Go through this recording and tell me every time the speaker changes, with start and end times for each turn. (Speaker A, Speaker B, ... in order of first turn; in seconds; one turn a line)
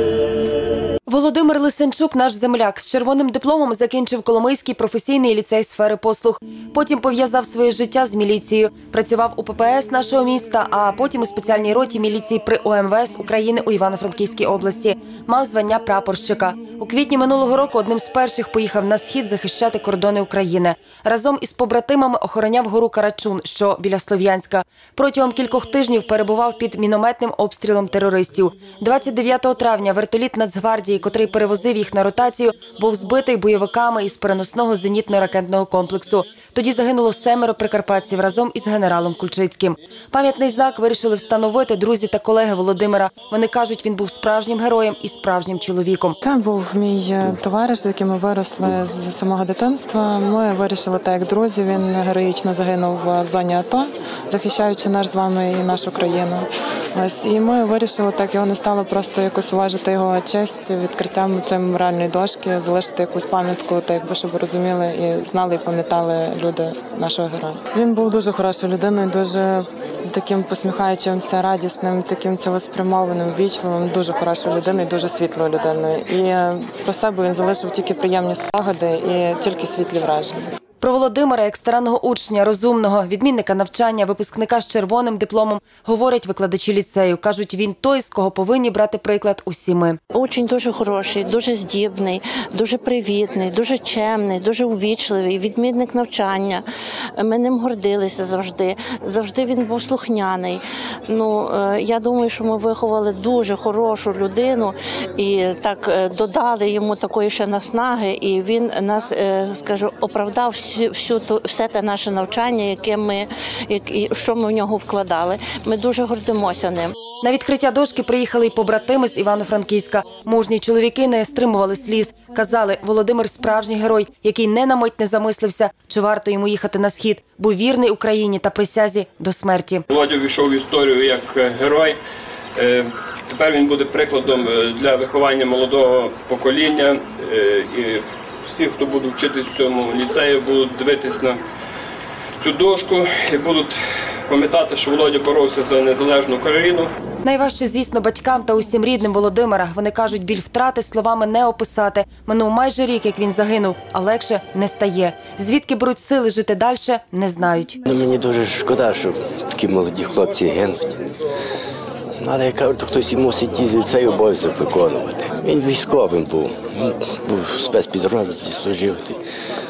Speaker A: 1.1-46.2
Speaker B: 46.2-80.5
Speaker A: 80.8-90.0
Speaker C: 90.1-96.6
Speaker C: 97.2-116.9
Speaker A: 117.2-129.8
Speaker D: 129.9-132.0
Speaker D: 132.6-141.4
Speaker D: 142.4-146.9
Speaker A: 147.2-157.8
Speaker E: 157.9-160.9
Speaker E: 162.2-169.2